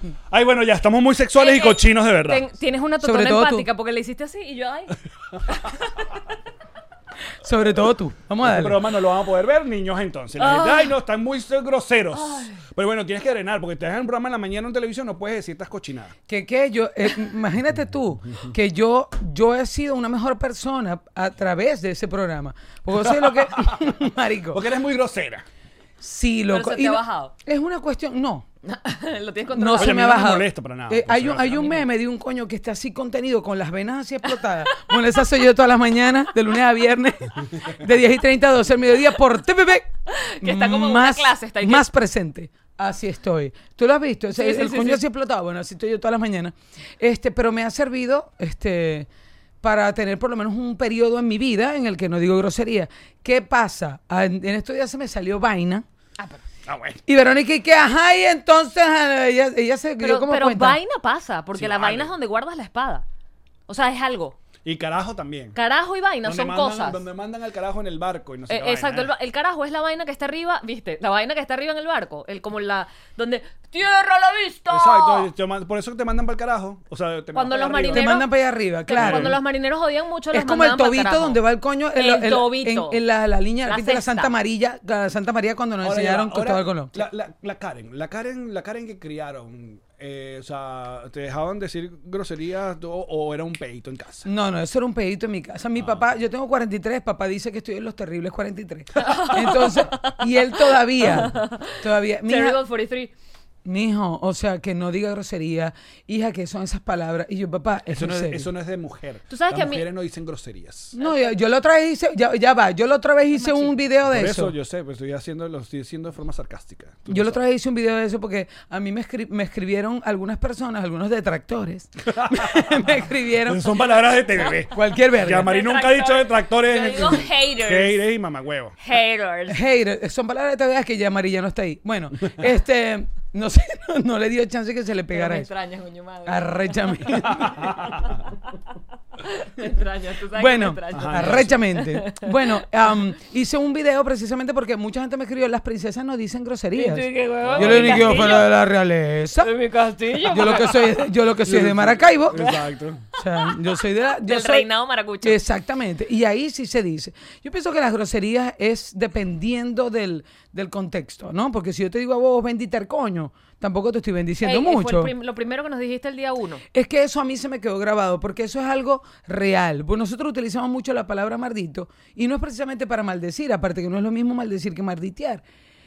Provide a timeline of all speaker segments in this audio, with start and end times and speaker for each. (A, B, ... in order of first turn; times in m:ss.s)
0:00.3-0:02.5 A
0:01.4-0:05.0 B
0:03.0-0:03.7 C
0:05.5-0:06.0 B
0:07.4-0:08.9 C
0:08.4-0:16.2 A
0:10.4-0:11.0 B
0:12.1-0:12.6 B
0:16.3-0:24.6 C
0:23.0-0:24.0 A
0:24.5-0:25.4 A
0:26.0-0:28.5 C
0:26.5-0:27.3 B
0:28.6-0:30.0 B
0:29.5-0:49.1 C
0:29.8-0:31.9 A
0:40.1-0:41.9 B
0:44.3-0:45.0 B
0:49.6-0:55.8 C
0:56.7-0:57.0 A
0:57.1-1:00.8 C
1:00.0-1:03.0 B
1:01.5-1:02.1 A
1:03.7-1:04.4 B
1:04.6-1:05.6 A
1:05.6-1:07.1 B
1:06.2-1:09.1 A
1:08.5-1:15.3 B
1:14.7-1:18.1 A
1:17.3-1:18.3 B
1:17.9-1:19.4 C
1:18.9-1:21.4 B
1:19.0-1:19.4 A
1:20.3-1:27.0 C
1:22.0-1:23.0 B
1:23.6-1:24.3 B
1:25.8-1:34.3 A
1:34.2-1:42.6 C
1:35.8-1:36.0 A
1:39.0-1:43.1 B
1:43.6-1:48.5 C
1:47.9-1:51.0 A
1:49.3-1:49.8 B
1:51.0-1:54.5 C
1:51.0-1:51.4 B
1:53.4-1:53.7 B
1:54.1-1:57.4 A
1:57.1-2:03.8 C
2:02.1-2:08.8 A
2:04.7-2:05.6 C
2:05.4-2:08.1 B
2:08.8-2:09.6 B
2:09.5-2:15.5 C
2:15.1-2:18.6 B
2:16.3-2:17.6 C
2:17.2-2:18.1 A
2:19.2-2:22.6 B
2:20.4-2:29.5 C
2:20.9-2:21.6 A
2:26.8-2:28.5 B
2:27.4-2:28.4 A
2:29.4-2:30.9 B
2:30.2-2:32.4 C
2:31.4-2:33.1 A
2:32.3-2:32.6 B
2:33.2-2:34.7 C
2:34.2-2:35.4 B
2:35.2-2:45.1 C
2:44.4-2:46.6 B
2:46.7-2:55.4 C